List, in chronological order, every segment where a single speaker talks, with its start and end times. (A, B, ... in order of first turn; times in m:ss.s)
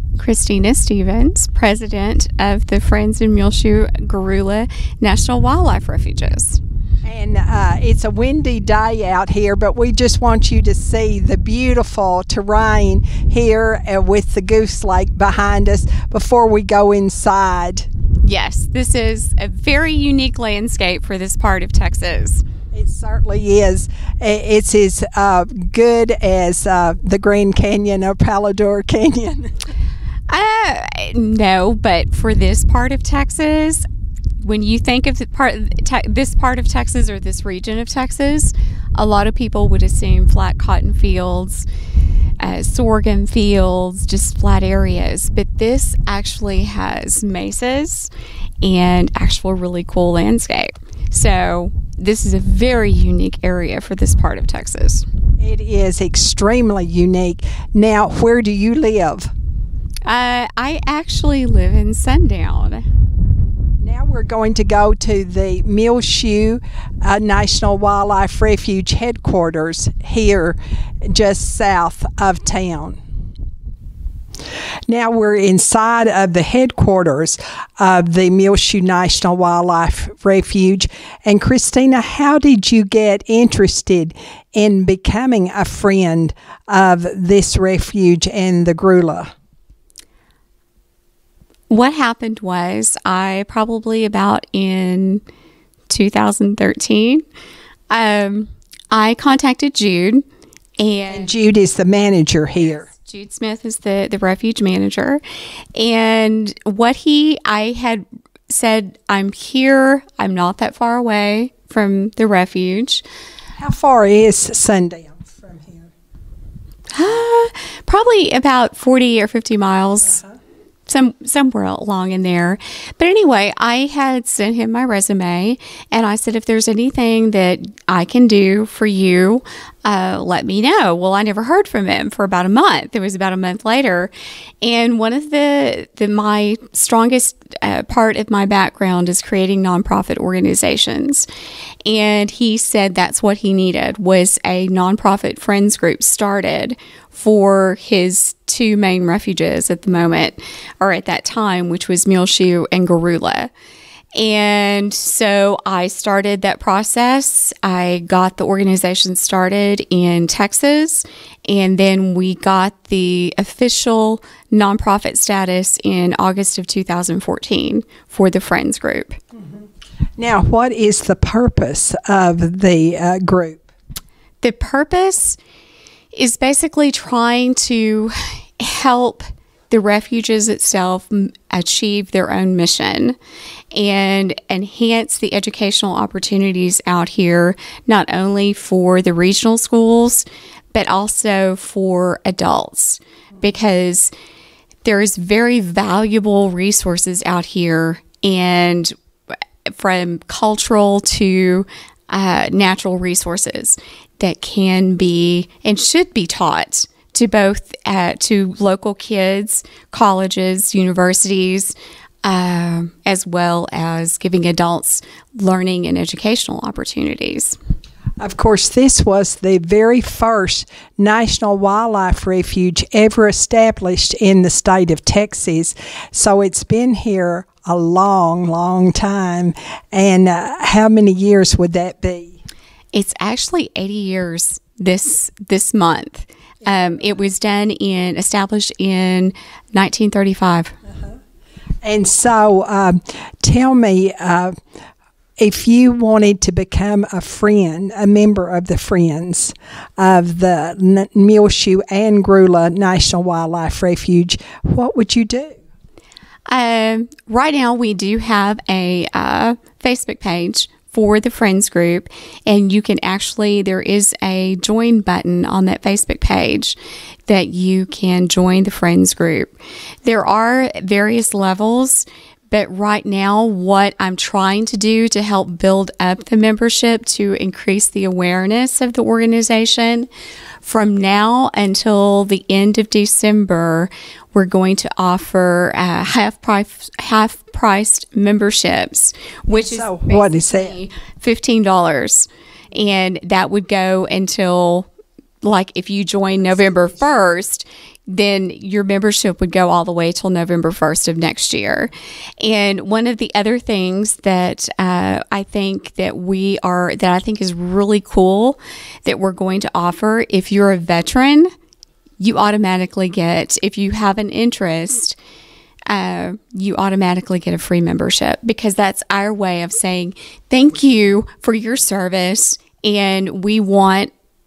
0:00.2-0:06.6 A
0:07.0-0:17.9 B
0:18.2-0:22.4 A
0:22.7-0:29.6 B
0:30.3-0:33.8 A
0:34.4-0:41.7 A
0:42.4-0:48.1 A
0:48.6-0:55.0 A
0:55.4-0:59.3 B
1:00.0-1:02.8 A
1:03.8-1:13.0 B
1:14.9-1:29.3 B
1:31.7-1:35.2 A
1:35.9-1:37.2 A
1:37.9-1:40.2 A
1:40.8-1:41.3 A
1:41.1-1:42.9 B
1:42.9-1:45.2 A
1:45.8-1:53.0 A
1:53.6-1:55.9 B
1:56.9-2:00.2 A
2:00.9-2:21.3 A
2:21.9-2:33.5 A
2:34.2-2:49.2 A
2:50.2-2:53.7 B
2:54.4-2:55.4 A
2:56.1-3:03.2 A
3:03.7-3:14.1 A
3:14.8-3:18.9 A
3:19.7-3:37.6 A
3:38.2-3:52.4 B
3:52.9-4:00.7 A
4:01.8-4:04.6 B
4:05.4-4:15.6 B
4:16.5-4:26.8 A
4:27.3-4:29.5 A
4:30.0-4:40.1 A
4:40.6-4:54.9 A
4:49.5-4:50.8 B
4:55.4-5:11.5 A
4:56.4-4:57.0 B
5:12.2-5:15.2 A
5:15.9-5:24.1 A